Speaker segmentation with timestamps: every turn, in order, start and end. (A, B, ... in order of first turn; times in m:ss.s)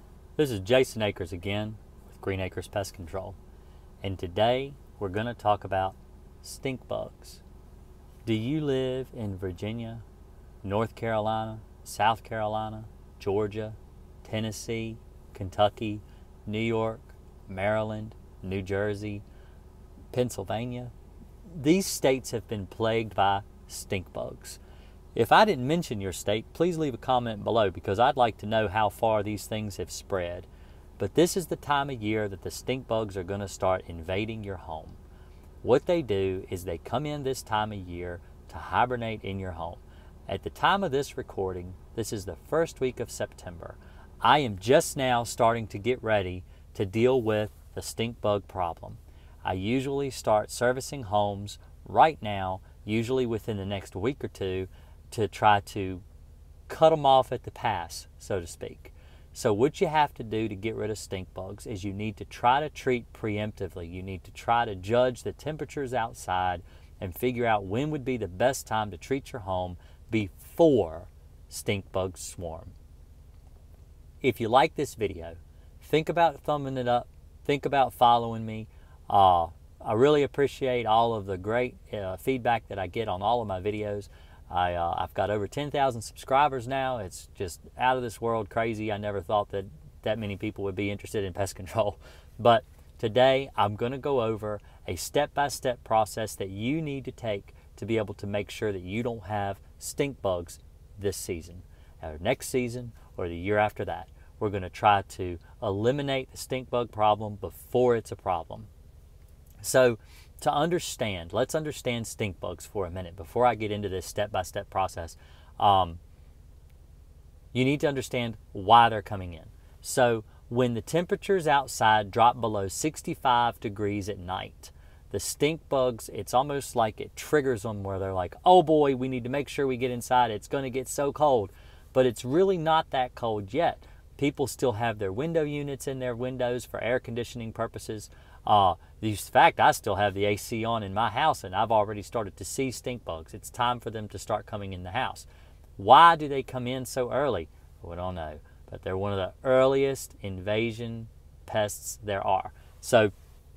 0:00.4-0:03.4 A
0:04.0-0:07.4 A
0:08.2-0:10.0 A
0:10.6-0:19.2 A
0:20.1-0:20.9 A
0:21.5-0:24.6 A
0:25.1-0:30.5 A
0:31.0-0:35.0 A
0:35.6-0:56.0 A
0:56.7-1:12.7 A
1:14.2-1:48.7 A
1:49.6-1:56.0 A
1:57.5-2:33.1 A